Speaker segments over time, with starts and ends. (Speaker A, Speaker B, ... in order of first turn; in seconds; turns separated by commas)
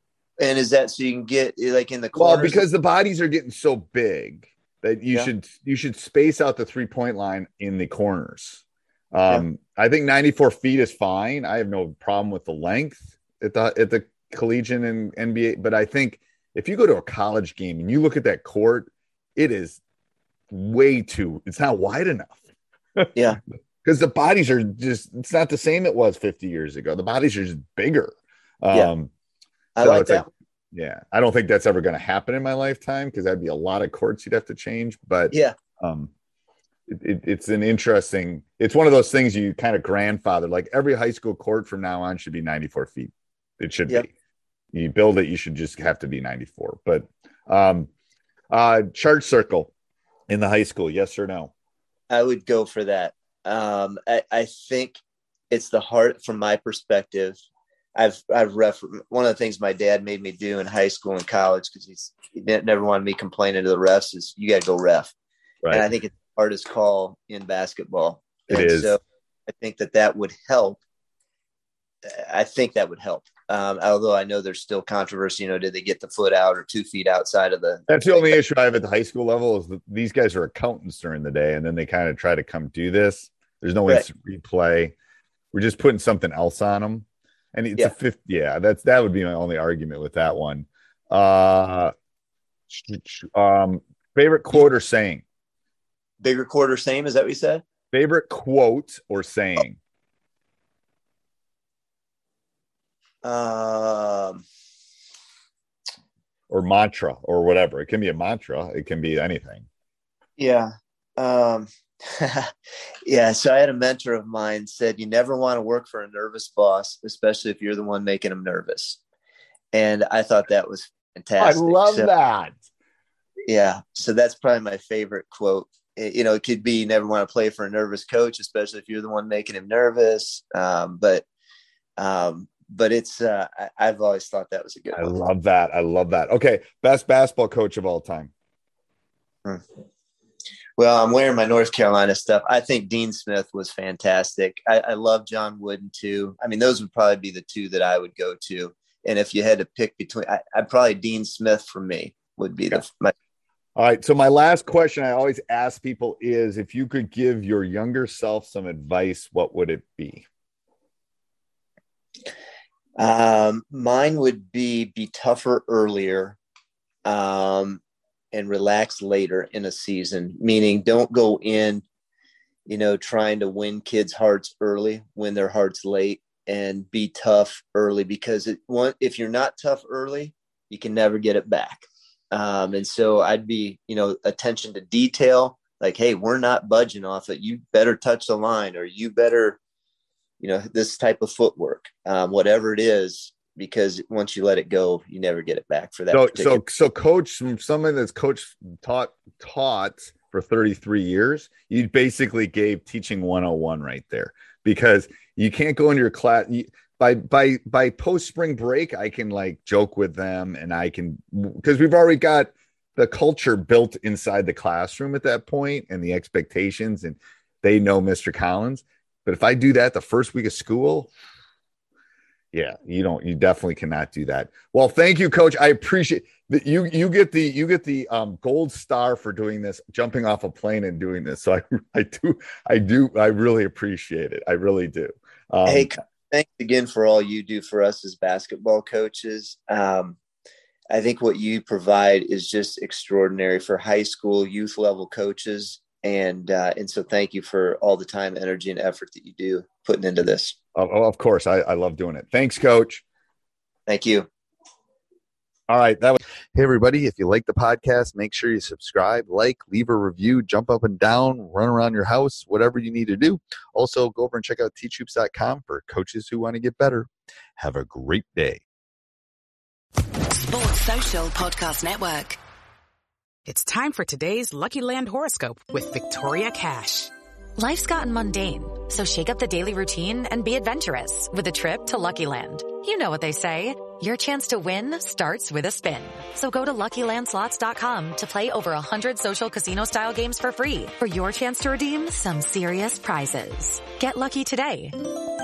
Speaker A: 0.4-2.6, Speaker B: 2.2-19.8, Speaker B: 20.5-22.4, Speaker A: 23.1-23.4, Speaker B: 23.8-29.1, Speaker A: 29.8-30.3, Speaker B: 29.8-36.1, Speaker A: 35.3-35.6, Speaker B: 36.9-44.1, Speaker B: 44.7-47.9, Speaker B: 48.5-49.7, Speaker B: 50.3-51.5, Speaker A: 52.1-55.0, Speaker A: 55.5-57.4, Speaker A: 57.9-65.1, Speaker B: 65.6-65.9, Speaker A: 65.7-70.8, Speaker B: 68.5-69.0, Speaker A: 72.0-78.3, Speaker B: 77.9-84.9, Speaker B: 85.5-91.9, Speaker B: 92.7-95.2, Speaker A: 96.2-97.6, Speaker B: 97.9-99.8, Speaker A: 103.2-104.4, Speaker B: 106.5-109.7, Speaker A: 110.4-112.5, Speaker A: 113.0-119.0, Speaker A: 119.7-122.1, Speaker B: 121.4-122.6, Speaker A: 123.5-131.2, Speaker A: 132.0-135.2, Speaker B: 134.9-138.3, Speaker A: 140.8-153.1, Speaker B: 153.8-160.2, Speaker A: 163.0-166.4, Speaker A: 167.0-167.8, Speaker A: 168.3-171.8, Speaker A: 172.7-189.6, Speaker A: 190.4-196.6, Speaker B: 196.1-221.1, Speaker B: 222.5-236.0, Speaker A: 235.7-240.2, Speaker A: 240.9-250.5, Speaker B: 250.7-253.0, Speaker A: 253.9-254.3, Speaker B: 255.7-268.6, Speaker C: 270.3-272.4, Speaker D: 273.4-277.1, Speaker E: 277.6-295.0